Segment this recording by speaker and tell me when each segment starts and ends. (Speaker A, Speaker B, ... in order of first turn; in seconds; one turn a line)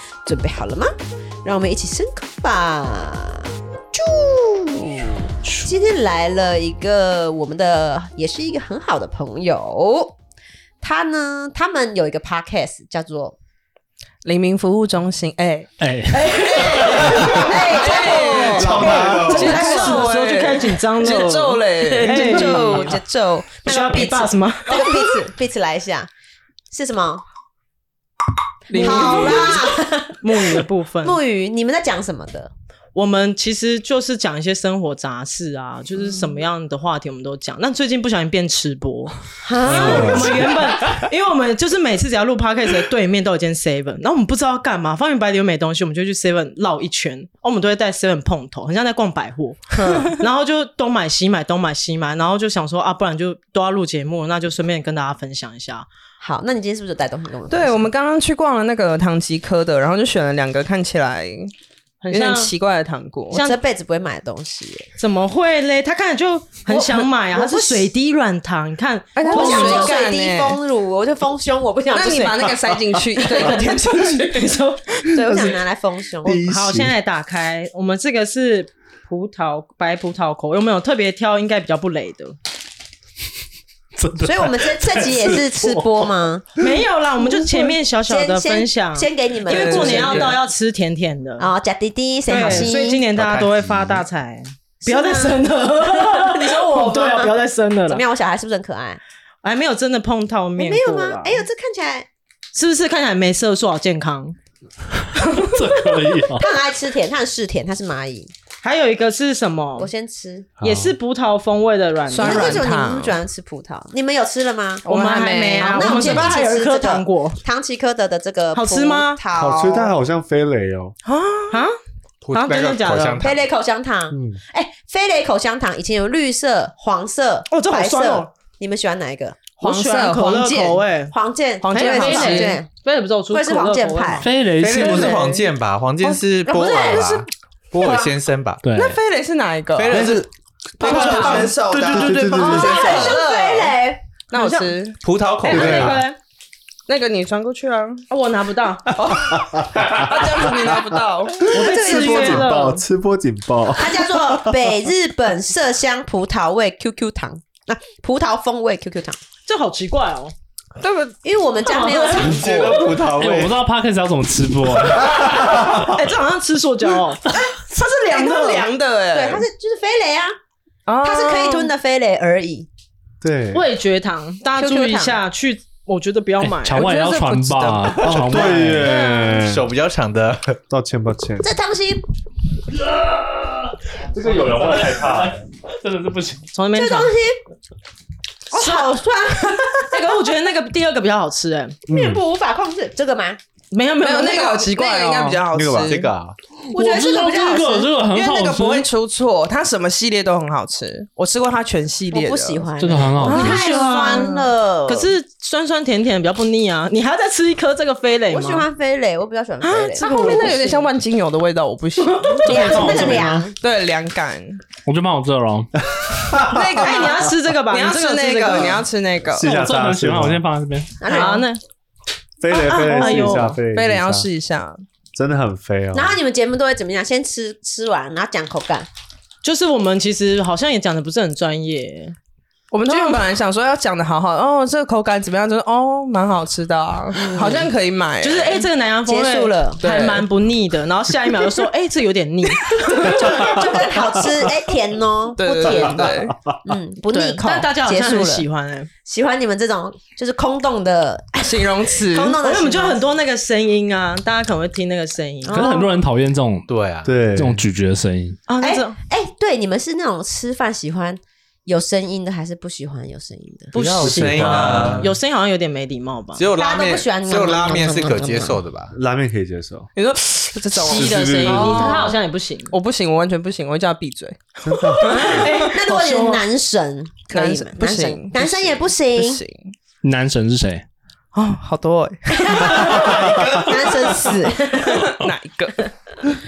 Speaker A: 0.2-0.9
Speaker A: 1.4-10.2
Speaker A: 10.8-13.3
Speaker B: 14.2-15.7
Speaker C: 15.8-17.2
Speaker D: 16.2-17.4
Speaker A: 16.2-20.1
Speaker B: 17.0-23.0
Speaker E: 18.5-19.6
Speaker F: 18.5-19.5
Speaker D: 18.7-23.0
Speaker A: 22.0-26.1
Speaker D: 23.6-25.0
Speaker A: 26.7-27.2
Speaker B: 28.7-29.6
Speaker D: 28.7-29.6
Speaker A: 28.7-32.5
Speaker D: 30.2-31.2
Speaker D: 32.9-55.9
Speaker A: 39.4-40.6
Speaker E: 39.7-40.4
Speaker A: 49.7-50.1
Speaker A: 56.2-57.9
Speaker B: 57.5-61.5
Speaker D: 62.0-62.5
Speaker B: 62.1-63.4
Speaker D: 63.3-63.6
Speaker A: 63.3-64.9
Speaker D: 65.0-70.0
Speaker A: 66.7-67.9
Speaker B: 69.1-70.6
Speaker A: 69.3-72.6
Speaker B: 71.9-74.8
Speaker D: 72.0-72.3
Speaker A: 73.2-73.6
Speaker D: 73.3-74.7
Speaker A: 75.1-76.4
Speaker E: 76.2-76.9
Speaker D: 76.4-82.3
Speaker C: 84.0-85.9
Speaker A: 84.2-86.5
Speaker D: 86.6-91.5
Speaker A: 88.0-90.4
Speaker B: 89.5-90.4
Speaker A: 91.4-93.0
Speaker D: 92.3-98.0
Speaker F: 93.2-94.0
Speaker A: 94.8-97.3
Speaker A: 97.9-99.0
Speaker D: 99.4-101.4
Speaker A: 100.6-102.1
Speaker D: 102.5-104.3
Speaker D: 105.2-105.5
Speaker C: 105.3-106.5
Speaker A: 106.3-108.3
Speaker D: 108.6-109.9
Speaker A: 109.8-110.5
Speaker E: 110.6-111.0
Speaker D: 110.6-112.6
Speaker B: 112.1-113.2
Speaker A: 112.1-119.9
Speaker D: 114.8-117.4
Speaker B: 114.8-116.2
Speaker D: 118.5-119.2
Speaker E: 119.3-120.9
Speaker D: 121.0-121.7
Speaker F: 122.2-123.4
Speaker D: 122.3-123.2
Speaker A: 123.2-132.7
Speaker E: 124.1-124.4
Speaker D: 127.5-128.3
Speaker D: 129.6-134.3
Speaker B: 131.8-132.5
Speaker A: 133.3-135.4
Speaker C: 134.2-135.3
Speaker F: 134.6-138.6
Speaker A: 136.4-138.1
Speaker C: 138.6-139.0
Speaker B: 138.7-140.1
Speaker F: 139.8-140.3
Speaker E: 139.9-140.3
Speaker E: 140.8-143.2
Speaker A: 140.8-141.6
Speaker B: 140.8-143.8
Speaker C: 140.9-142.5
Speaker F: 141.0-141.4
Speaker A: 142.4-144.7
Speaker B: 144.3-145.0
Speaker F: 145.0-146.0
Speaker D: 145.4-146.2
Speaker E: 145.4-146.0
Speaker B: 146.9-148.0
Speaker D: 148.1-148.9
Speaker B: 148.9-152.4
Speaker E: 149.0-154.7
Speaker D: 151.4-152.8
Speaker A: 153.7-159.2
Speaker D: 159.4-160.3
Speaker B: 160.8-161.2
Speaker A: 161.2-162.9
Speaker D: 161.7-162.3
Speaker B: 161.7-162.1
Speaker F: 162.1-163.5
Speaker E: 162.2-163.5
Speaker C: 162.9-165.6
Speaker E: 164.9-165.9
Speaker D: 165.5-168.6
Speaker B: 167.6-169.5
Speaker A: 168.1-168.6
Speaker A: 169.1-170.3
Speaker B: 170.9-171.7
Speaker A: 171.0-172.7
Speaker E: 173.2-173.6
Speaker D: 173.5-176.9
Speaker B: 174.6-175.2
Speaker C: 176.4-179.0
Speaker B: 176.7-178.0
Speaker F: 178.0-180.6
Speaker E: 178.0-179.7
Speaker E: 180.7-181.5
Speaker A: 181.4-182.0
Speaker C: 182.7-186.5
Speaker E: 184.1-185.4
Speaker D: 186.5-187.1
Speaker A: 186.7-187.4
Speaker A: 188.5-190.1
Speaker D: 188.6-188.9
Speaker D: 189.8-191.8
Speaker E: 191.9-192.2
Speaker A: 191.9-193.4
Speaker D: 193.7-195.3
Speaker B: 194.0-196.1
Speaker E: 195.5-196.1
Speaker F: 195.8-196.3
Speaker C: 196.7-198.9
Speaker A: 196.7-198.0
Speaker B: 198.1-202.7
Speaker A: 202.1-205.1
Speaker C: 202.8-203.7
Speaker D: 203.2-208.7
Speaker B: 203.2-204.3
Speaker A: 208.3-210.5
Speaker D: 209.6-210.9
Speaker B: 209.9-214.6
Speaker D: 212.0-213.2
Speaker C: 212.4-213.5
Speaker A: 212.5-213.5
Speaker C: 214.8-215.7
Speaker E: 216.0-216.8
Speaker B: 216.4-219.6
Speaker D: 216.7-218.9
Speaker E: 219.4-220.4
Speaker C: 219.4-221.0
Speaker A: 221.0-221.5
Speaker D: 221.0-221.6
Speaker E: 222.4-224.3
Speaker D: 222.5-223.6
Speaker B: 222.7-224.8
Speaker E: 225.1-226.2
Speaker A: 225.9-228.9
Speaker D: 229.4-232.2
Speaker B: 232.7-238.6
Speaker D: 232.8-233.2
Speaker A: 237.1-237.7
Speaker D: 238.2-243.6
Speaker A: 239.1-239.9
Speaker B: 239.8-240.2
Speaker A: 242.8-246.1
Speaker B: 245.4-246.3
Speaker E: 245.7-246.5
Speaker A: 246.6-248.4
Speaker D: 247.1-248.9
Speaker A: 249.0-253.0
Speaker B: 251.4-252.4
Speaker D: 252.4-255.9
Speaker A: 255.5-255.9
Speaker C: 255.5-256.7
Speaker F: 256.7-257.1
Speaker E: 257.0-257.6
Speaker C: 257.3-258.4
Speaker D: 258.5-259.0
Speaker A: 258.6-263.7
Speaker D: 263.7-266.4
Speaker F: 263.7-265.1
Speaker E: 263.7-265.1
Speaker F: 266.4-268.9
Speaker A: 266.5-268.6
Speaker E: 268.9-269.9
Speaker B: 269.9-272.2
Speaker D: 270.8-272.7
Speaker E: 270.9-272.0
Speaker B: 272.7-276.4
Speaker E: 274.6-275.5
Speaker D: 274.9-275.8
Speaker A: 275.7-279.4
Speaker B: 277.3-279.7
Speaker C: 280.0-280.8
Speaker B: 281.3-285.9
Speaker A: 282.4-285.1
Speaker E: 282.8-283.5